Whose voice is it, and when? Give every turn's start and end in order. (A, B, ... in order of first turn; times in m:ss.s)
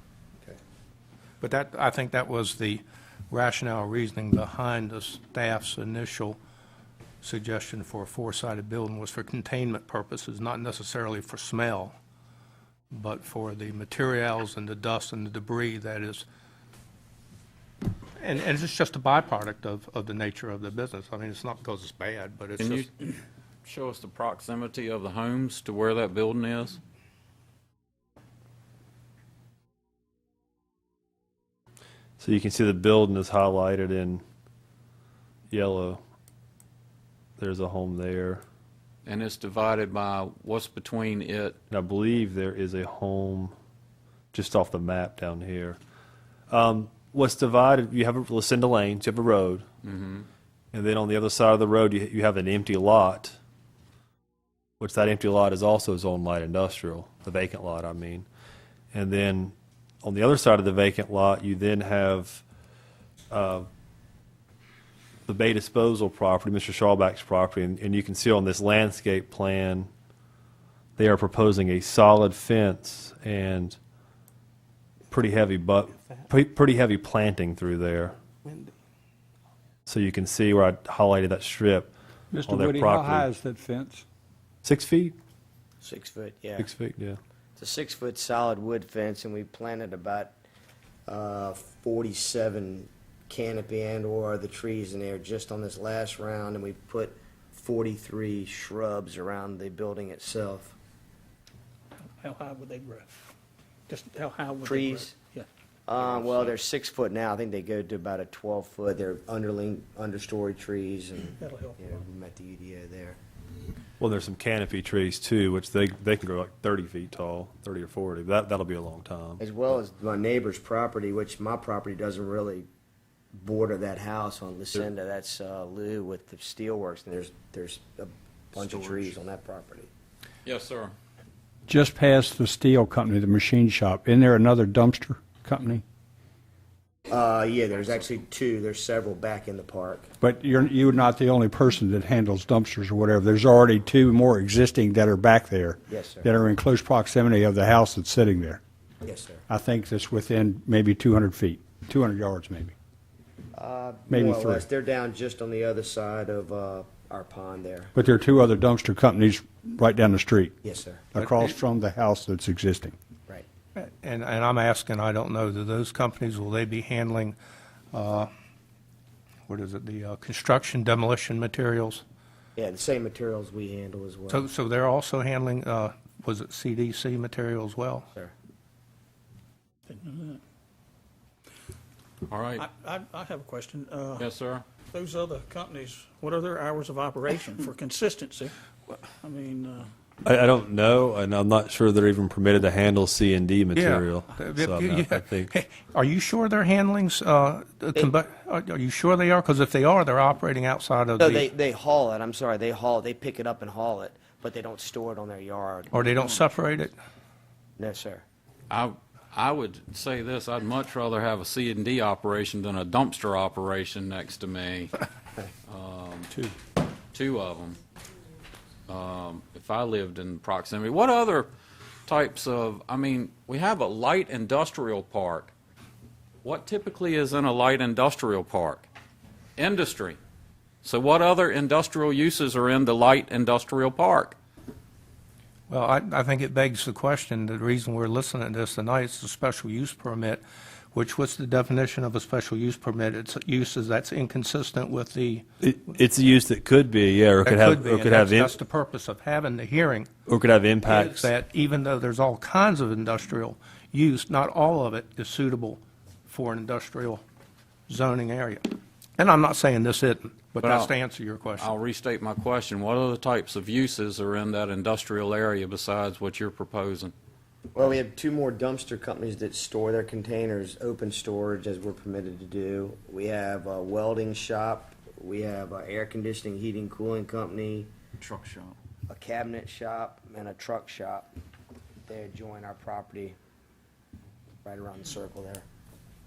0:01.4-0:06.4 A
0:07.2-0:11.9 A
0:12.9-0:16.2 A
0:18.2-0:22.9 A
0:22.6-0:22.9 B
0:23.6-0:26.8 B
0:32.2-0:34.2 C
0:35.5-0:36.0 C
0:37.4-0:38.4 C
0:39.0-0:41.6 B
0:41.7-0:43.5 C
0:44.3-0:45.8 C
0:46.5-0:49.6 C
0:49.8-0:50.3 B
0:50.7-0:53.4 C
0:54.8-0:58.3 C
0:58.9-1:02.4 C
1:03.3-1:03.7 C
1:05.3-1:09.9 C
1:11.0-1:13.8 C
1:15.1-1:18.2 C
1:19.8-1:21.9 C
1:22.3-1:24.0 D
1:22.4-1:23.3 C
1:24.6-1:25.2 C
1:25.8-1:26.7 E
1:26.6-1:27.2 C
1:27.6-1:30.3 E
1:31.1-1:40.8 E
1:42.2-1:43.3 F
1:43.9-1:45.5 F
1:44.6-1:45.2 E
1:45.9-1:53.2 E
1:51.4-1:52.0 F
1:54.0-1:59.4 C
1:59.4-2:02.7 E
2:03.3-2:09.9 E
2:10.4-2:10.9 B
2:11.7-2:15.8 D
2:17.1-2:20.1 E
2:20.2-2:28.6 D
2:25.9-2:26.3 E
2:29.0-2:29.4 E
2:29.5-2:32.7 D
2:33.5-2:37.9 E
2:34.1-2:34.6 D
2:37.9-2:40.6 D
2:40.6-2:41.0 E
2:41.1-2:42.9 D
2:41.2-2:41.5 A
2:43.7-2:47.4 A
2:47.9-2:48.3 A
2:49.5-2:52.0 A
2:52.6-2:54.4 E
2:54.3-2:58.1 A
2:59.9-3:00.4 F
3:02.2-3:02.6 B
3:02.6-3:04.3 F
3:04.2-3:04.6 B
3:04.9-3:08.5 F
3:09.2-3:09.9 F
3:10.2-3:15.5 C
3:13.7-3:21.5 A
3:21.2-3:26.1 E
3:25.9-3:26.9 A
3:27.8-3:28.2 E
3:28.7-3:34.9 B
3:35.7-3:36.3 B
3:37.1-3:37.8 B
3:38.9-3:41.5 B
3:42.1-3:45.5 B
3:46.4-3:48.9 B
3:49.6-3:50.2 B
3:50.8-3:54.4 B
3:55.7-4:00.4 A
4:00.9-4:05.4 A
4:05.6-4:08.6 C
4:07.4-4:10.1 A
4:10.3-4:11.3 C
4:10.8-4:17.2 A
4:17.9-4:21.7 A
4:20.6-4:20.9 B
4:21.6-4:27.1 B
4:27.7-4:37.9 E
4:38.2-4:38.8 B
4:39.1-4:41.3 E
4:42.1-4:43.4 E
4:44.6-4:45.6 E